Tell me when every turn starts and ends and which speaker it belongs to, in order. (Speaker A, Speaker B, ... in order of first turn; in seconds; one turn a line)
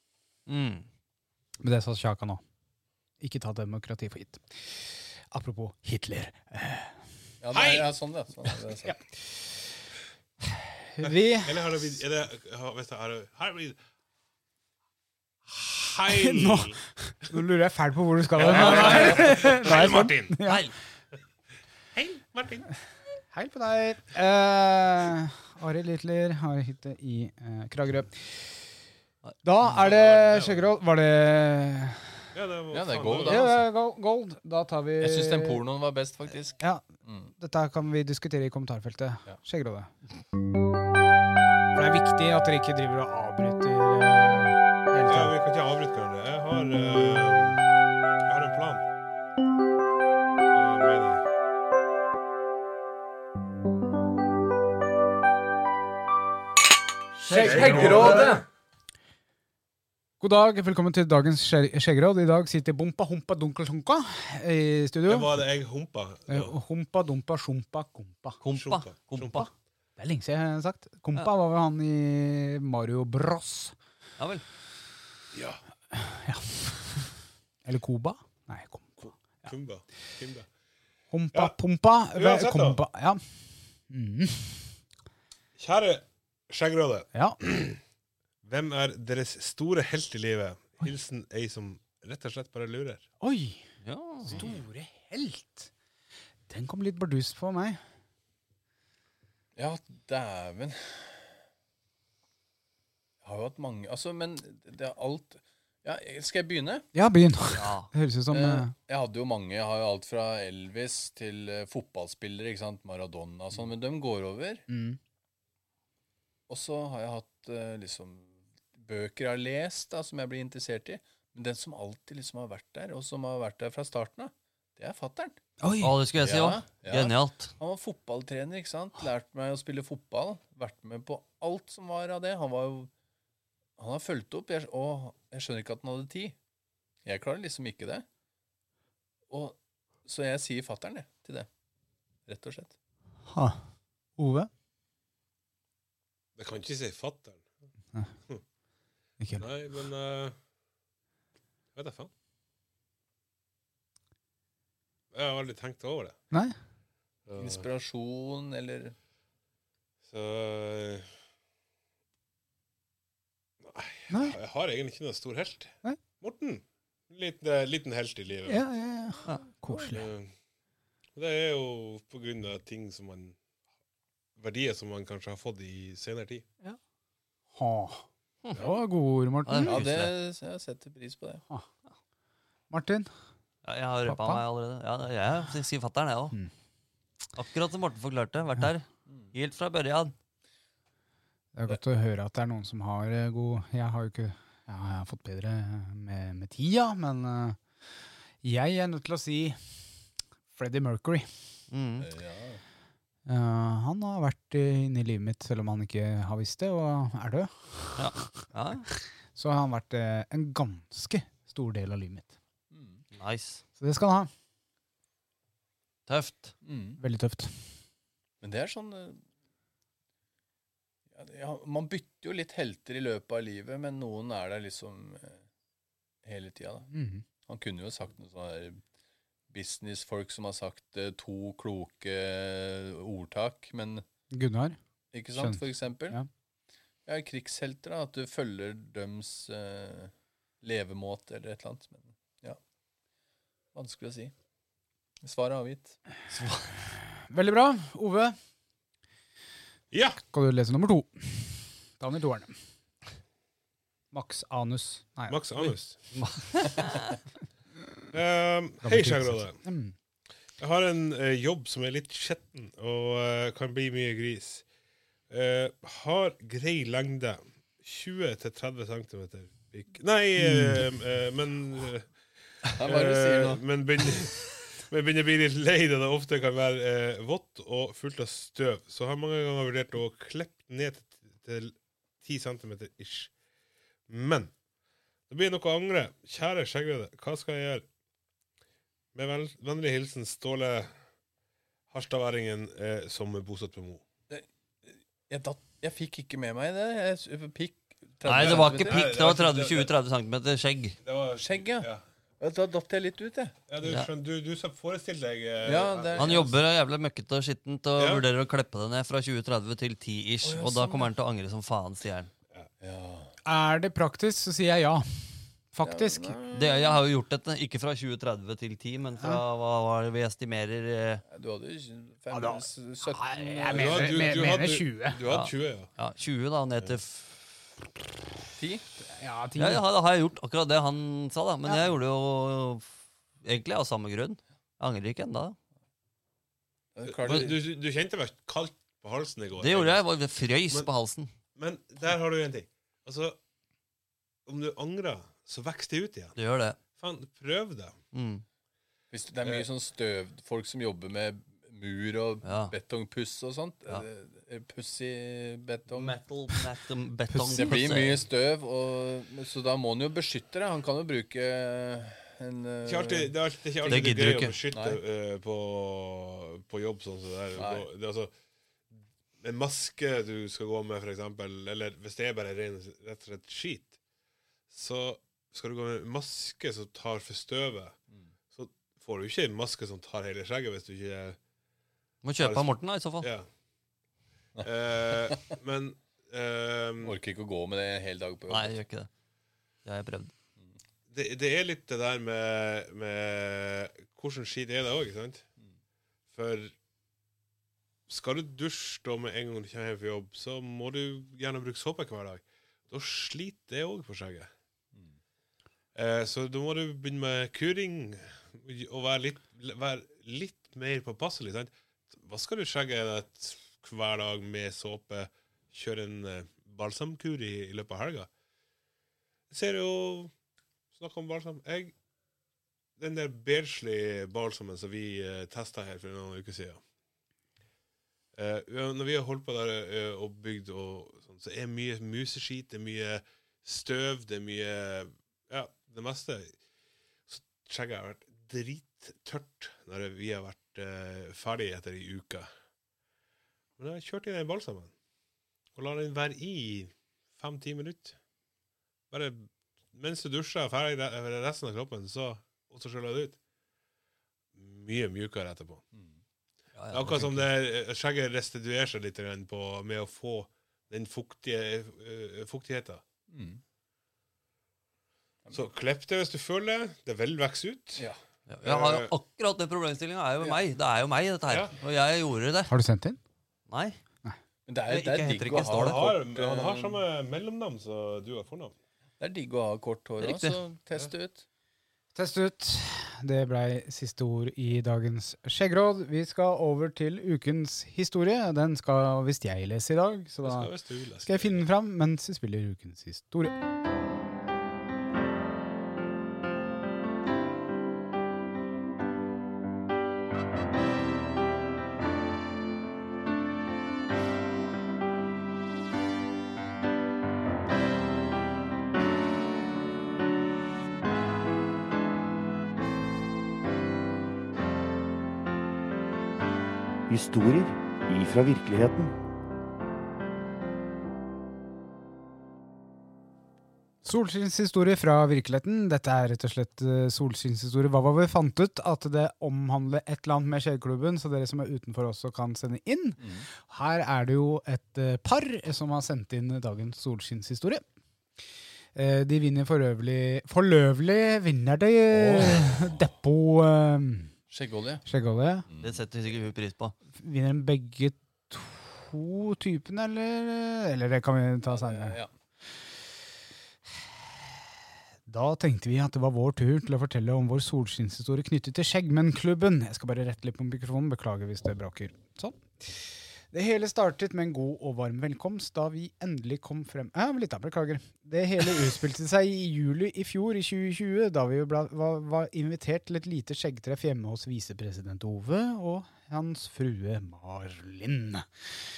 Speaker A: 0.5-0.9
Speaker B: 1.6-2.4
Speaker B: 3.2-6.9
Speaker C: 7.4-9.0
Speaker D: 7.5-7.9
Speaker B: 10.5-11.7
Speaker D: 11.1-13.8
Speaker D: 15.5-16.8
Speaker B: 16.1-20.6
Speaker D: 18.4-20.4
Speaker A: 18.4-19.8
Speaker A: 20.4-20.7
Speaker D: 21.9-22.7
Speaker B: 23.3-28.4
Speaker B: 29.4-32.0
Speaker D: 29.6-30.7
Speaker D: 32.3-33.5
Speaker C: 32.7-33.6
Speaker B: 33.2-35.6
Speaker C: 35.0-37.3
Speaker B: 37.4-39.9
Speaker B: 41.7-45.4
Speaker D: 45.1-47.6
Speaker D: 48.3-48.9
Speaker D: 50.5-51.2
Speaker C: 57.3-58.4
Speaker B: 57.3-58.2
Speaker D: 57.3-58.4
Speaker A: 57.4-58.3
Speaker B: 60.2-65.4
Speaker D: 65.1-66.5
Speaker B: 66.3-68.4
Speaker A: 68.4-69.5
Speaker D: 68.5-69.5
Speaker B: 70.0-73.7
Speaker A: 74.2-74.4
Speaker D: 75.3-75.6
Speaker B: 75.9-77.1
Speaker B: 77.7-79.5
Speaker D: 79.0-80.5
Speaker B: 81.1-83.2
Speaker D: 82.2-82.8
Speaker B: 83.9-84.7
Speaker D: 85.6-87.8
Speaker B: 87.1-87.4
Speaker D: 88.4-93.1
Speaker B: 93.2-93.6
Speaker A: 93.8-94.4
Speaker B: 94.3-95.7
Speaker B: 96.5-97.8
Speaker C: 99.6-101.4
Speaker C: 103.2-106.9
Speaker B: 106.9-108.7
Speaker A: 107.5-107.9
Speaker C: 108.3-114.6
Speaker B: 114.7-115.0
Speaker C: 116.5-125.4
Speaker B: 125.6-126.0
Speaker A: 125.8-127.5
Speaker C: 126.2-132.9
Speaker C: 133.8-136.4
Speaker C: 137.1-138.1
Speaker C: 139.3-141.5
Speaker C: 142.3-142.8
Speaker B: 143.3-143.6
Speaker B: 144.2-144.5
Speaker D: 146.4-147.4
Speaker D: 149.4-150.4
Speaker D: 151.8-152.1
Speaker D: 155.1-156.2
Speaker D: 157.3-157.6
Speaker C: 157.3-158.9
Speaker D: 160.1-161.1
Speaker D: 163.6-168.6
Speaker B: 164.1-164.4
Speaker B: 168.5-170.0
Speaker D: 169.9-170.3
Speaker D: 171.2-173.4
Speaker D: 174.4-176.4
Speaker B: 177.5-179.9
Speaker A: 179.5-180.1
Speaker C: 179.6-181.4
Speaker B: 182.7-183.1
Speaker A: 183.6-186.3
Speaker B: 184.1-184.4
Speaker A: 187.4-190.1
Speaker B: 191.6-197.6
Speaker B: 198.4-199.6
Speaker B: 200.5-201.3
Speaker A: 201.7-202.1
Speaker C: 202.0-202.6
Speaker B: 203.3-208.2
Speaker A: 208.0-208.9
Speaker B: 208.9-212.3
Speaker C: 212.7-213.0
Speaker A: 213.1-213.6
Speaker B: 213.8-214.3
Speaker A: 216.1-216.6
Speaker C: 216.6-217.0
Speaker B: 217.0-217.5
Speaker C: 218.4-219.2
Speaker C: 221.1-225.4
Speaker C: 226.2-226.9
Speaker B: 226.9-227.2
Speaker C: 227.4-228.8
Speaker C: 229.5-234.0
Speaker B: 234.3-234.8
Speaker C: 235.1-236.2
Speaker B: 235.3-236.3
Speaker C: 237.1-242.6
Speaker C: 243.7-244.3
Speaker C: 245.2-246.0
Speaker B: 247.2-248.4
Speaker D: 249.9-250.2
Speaker B: 250.2-252.6
Speaker B: 254.1-255.7
Speaker D: 255.3-256.0
Speaker A: 256.1-257.1
Speaker D: 258.1-259.6
Speaker B: 258.8-259.9
Speaker D: 260.6-264.6
Speaker D: 265.3-283.3
Speaker B: 270.4-270.9
Speaker C: 272.7-273.6
Speaker D: 284.1-284.5
Speaker D: 285.3-287.9
Speaker D: 289.1-290.9
Speaker D: 291.9-294.0
Speaker C: 294.3-299.1
Speaker A: 298.2-301.0
Speaker D: 298.3-299.9
Speaker D: 301.0-302.0
Speaker C: 301.4-301.9
Speaker C: 302.4-303.6
Speaker D: 303.7-306.5
Speaker A: 303.8-304.1
Speaker C: 305.6-306.6
Speaker A: 306.2-312.3
Speaker D: 308.0-308.2
Speaker C: 310.4-311.1
Speaker C: 312.8-313.3
Speaker B: 313.4-316.4
Speaker C: 315.8-317.0
Speaker A: 316.5-321.2
Speaker C: 321.3-324.4
Speaker B: 322.3-325.2
Speaker D: 323.7-325.9
Speaker A: 325.2-327.3
Speaker C: 328.6-328.9
Speaker B: 329.2-329.8
Speaker A: 329.6-332.9
Speaker A: 333.4-335.6
Speaker C: 336.9-337.6
Speaker D: 337.1-340.0
Speaker A: 339.6-341.3
Speaker D: 341.6-343.4
Speaker D: 344.5-346.4
Speaker A: 346.4-346.8
Speaker D: 346.9-348.0
Speaker A: 348.1-348.4
Speaker C: 349.1-356.2
Speaker A: 352.4-352.7
Speaker A: 355.9-358.2
Speaker B: 357.3-357.7
Speaker C: 357.5-364.1
Speaker D: 362.9-368.3
Speaker A: 363.9-364.6
Speaker C: 364.7-365.0
Speaker C: 367.6-367.9
Speaker D: 369.4-373.9
Speaker D: 374.7-378.0
Speaker D: 378.5-381.4
Speaker A: 382.2-383.3
Speaker D: 382.4-382.7
Speaker D: 383.2-383.5
Speaker C: 384.6-385.5
Speaker D: 384.6-387.2
Speaker C: 387.0-388.8
Speaker A: 388.5-389.1
Speaker A: 389.9-390.3
Speaker D: 391.1-395.4
Speaker D: 396.3-396.7
Speaker D: 398.1-404.5
Speaker D: 405.9-418.3
Speaker D: 419.5-420.3
Speaker D: 421.0-421.9
Speaker D: 423.0-426.8
Speaker D: 428.4-436.5
Speaker D: 437.3-442.5
Speaker D: 443.8-444.9
Speaker D: 445.8-448.1
Speaker D: 449.1-453.4
Speaker D: 454.6-455.8
Speaker A: 456.8-457.5
Speaker D: 456.9-463.0
Speaker C: 463.3-463.6
Speaker D: 465.5-468.1
Speaker A: 468.5-472.7
Speaker D: 468.6-469.1
Speaker D: 471.5-471.7
Speaker B: 472.7-473.2
Speaker A: 473.7-474.0
Speaker C: 474.7-477.0
Speaker A: 474.9-476.0
Speaker D: 475.5-478.7
Speaker C: 479.2-481.4
Speaker A: 480.2-480.6
Speaker B: 482.1-490.7
Speaker D: 490.4-491.6
Speaker B: 491.2-493.6
Speaker E: 517.1-519.1
Speaker B: 524.0-537.8
Speaker C: 533.2-533.5
Speaker B: 539.0-544.3
Speaker C: 542.1-543.1
Speaker C: 544.5-545.0
Speaker B: 545.0-545.7
Speaker C: 545.7-546.0
Speaker A: 545.8-547.0
Speaker B: 547.2-552.2
Speaker C: 551.7-552.3
Speaker B: 555.3-578.5